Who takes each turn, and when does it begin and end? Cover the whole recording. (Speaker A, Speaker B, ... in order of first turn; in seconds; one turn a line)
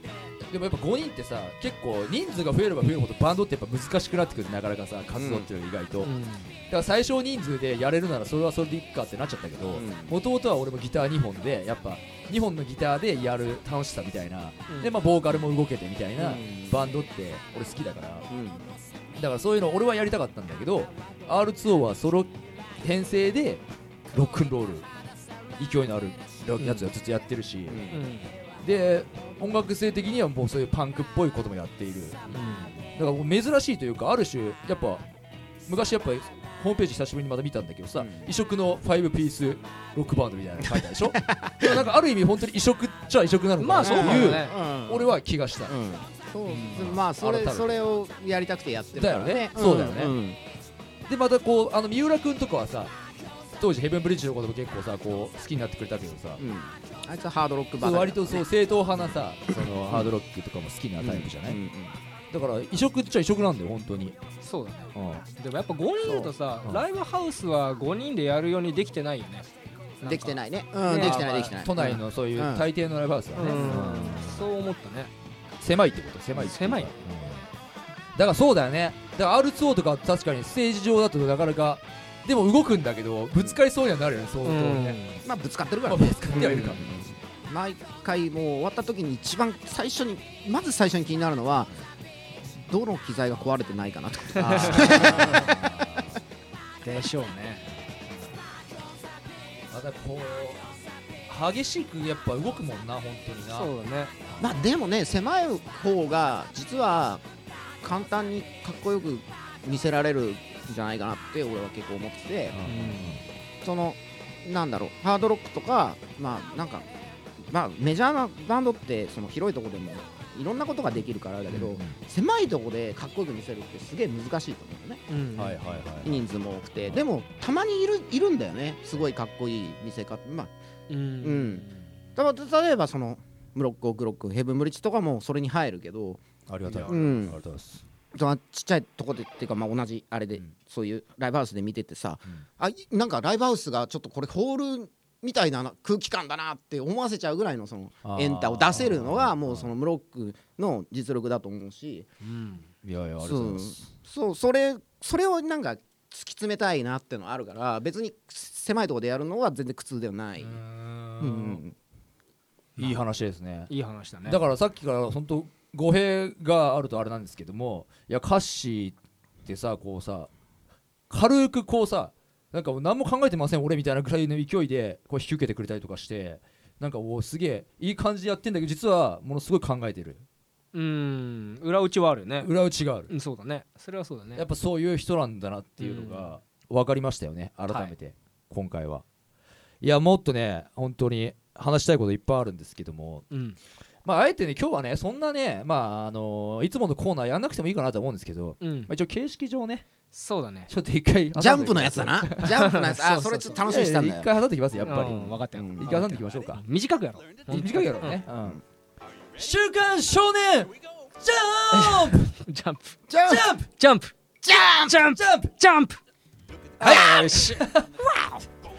Speaker A: 0.4-6.1
Speaker B: 5.1-5.5
Speaker C: 6.0-6.5
Speaker A: 6.7-18.3
Speaker B: 9.7-10.1
Speaker B: 16.2-16.9
Speaker B: 18.3-18.6
Speaker A: 19.1-22.3
Speaker A: 22.8-24.9
Speaker A: 25.6-27.8
Speaker C: 26.6-26.9
Speaker B: 27.7-28.0
Speaker C: 27.9-28.3
Speaker A: 28.6-35.0
Speaker C: 32.3-32.7
Speaker A: 35.7-45.7
Speaker B: 38.0-38.3
Speaker B: 41.3-41.8
Speaker C: 43.6-44.5
Speaker B: 43.8-45.1
Speaker B: 45.7-50.4
Speaker C: 46.5-46.9
Speaker A: 46.7-47.8
Speaker A: 49.0-50.1
Speaker A: 51.1-52.9
Speaker A: 53.6-56.4
Speaker B: 56.4-58.5
Speaker A: 57.8-61.6
Speaker B: 61.0-62.0
Speaker A: 62.3-64.2
Speaker C: 64.4-69.5
Speaker A: 64.9-65.2
Speaker B: 66.0-66.3
Speaker C: 70.0-71.4
Speaker B: 70.0-72.7
Speaker A: 71.0-74.4
Speaker C: 73.3-75.1
Speaker A: 75.6-77.4
Speaker C: 76.4-76.9
Speaker A: 78.1-85.0
Speaker C: 84.4-85.2
Speaker B: 85.2-91.7
Speaker A: 85.9-86.9
Speaker B: 92.5-95.6
Speaker C: 94.3-95.5
Speaker A: 94.4-96.1
Speaker C: 96.8-97.6
Speaker A: 99.7-100.6
Speaker A: 101.3-103.7
Speaker C: 103.5-104.1
Speaker B: 104.4-107.2
Speaker B: 107.8-112.5
Speaker A: 112.5-113.2
Speaker C: 112.7-113.2
Speaker B: 113.6-116.9
Speaker B: 117.4-125.0
Speaker A: 121.5-122.0
Speaker C: 125.1-125.6
Speaker A: 125.4-126.2
Speaker B: 126.0-130.5
Speaker C: 130.9-131.8
Speaker B: 131.2-136.2
Speaker A: 136.5-137.8
Speaker B: 136.8-137.4
Speaker B: 138.1-152.1
Speaker A: 148.0-149.7
Speaker C: 152.2-152.7
Speaker A: 152.8-153.8
Speaker B: 153.2-160.6
Speaker C: 160.4-161.6
Speaker B: 161.2-161.8
Speaker A: 162.8-163.7
Speaker C: 163.7-164.4
Speaker A: 164.2-170.3
Speaker A: 171.1-180.2
Speaker C: 180.7-182.5
Speaker A: 182.4-183.1
Speaker C: 183.1-184.4
Speaker A: 184.3-189.0
Speaker C: 185.8-186.3
Speaker C: 187.7-187.9
Speaker A: 189.8-193.2
Speaker C: 193.3-193.6
Speaker A: 194.0-199.8
Speaker C: 198.6-198.9
Speaker C: 200.1-200.7
Speaker A: 200.7-202.5
Speaker B: 201.3-204.3
Speaker C: 202.4-203.6
Speaker A: 203.6-206.6
Speaker C: 204.8-208.2
Speaker B: 205.3-205.9
Speaker A: 207.4-208.6
Speaker A: 209.3-212.3
Speaker C: 211.7-213.0
Speaker B: 213.1-213.5
Speaker A: 213.2-213.7
Speaker C: 213.7-214.1
Speaker B: 214.4-215.0
Speaker C: 214.7-216.0
Speaker A: 215.1-215.5
Speaker A: 216.8-217.9
Speaker C: 216.8-217.7
Speaker B: 218.1-218.4